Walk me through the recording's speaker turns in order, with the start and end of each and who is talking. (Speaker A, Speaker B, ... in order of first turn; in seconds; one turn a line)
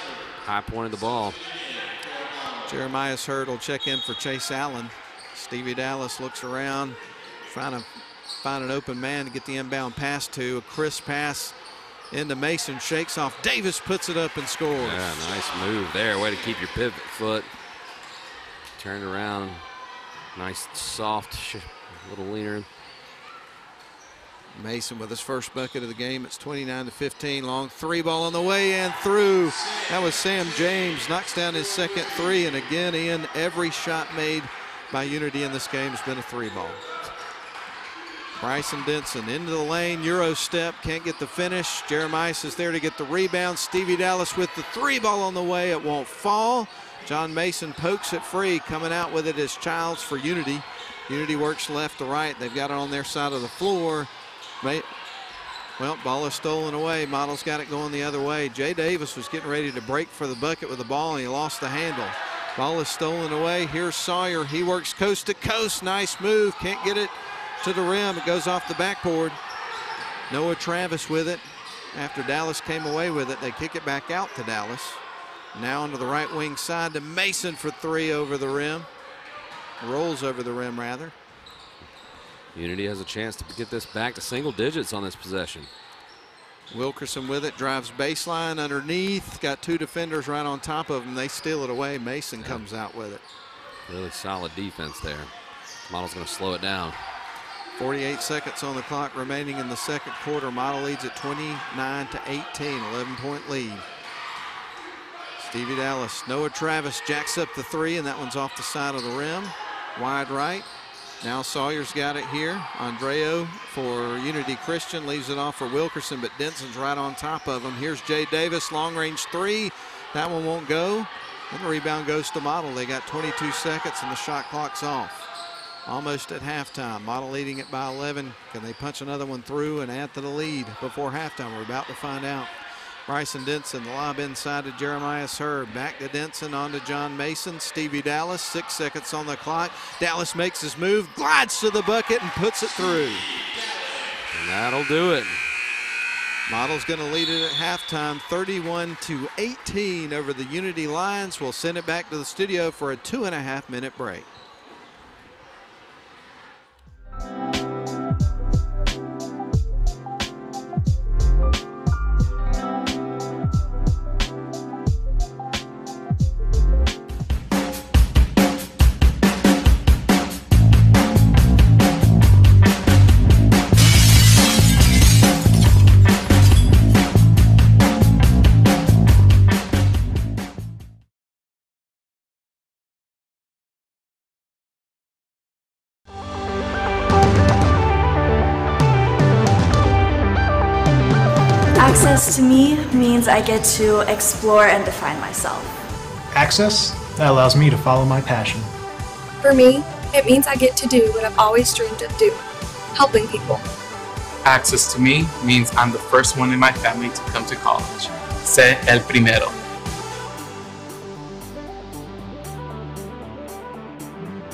Speaker A: 0.4-1.4
Speaker B: 2.6-7.9
Speaker B: 8.4-11.6
Speaker B: 12.1-15.0
Speaker A: 14.8-17.5
Speaker A: 18.8-19.6
Speaker A: 20.4-22.7
Speaker B: 24.5-36.9
Speaker B: 38.4-54.1
Speaker B: 54.6-54.9
Speaker B: 55.8-69.4
Speaker B: 70.3-75.0
Speaker B: 75.5-78.9
Speaker B: 79.8-81.1
Speaker A: 82.5-85.7
Speaker B: 86.7-93.2
Speaker A: 93.9-95.3
Speaker A: 95.9-97.0
Speaker B: 97.8-103.8
Speaker B: 105.4-110.7
Speaker B: 111.2-125.3
Speaker B: 125.9-132.5
Speaker B: 133.1-143.3
Speaker A: 144.3-145.4
Speaker B: 146.5-154.3
Speaker C: 191.8-195.8
Speaker D: 196.3-198.7
Speaker E: 199.4-202.4
Speaker E: 202.9-203.6
Speaker F: 204.4-209.6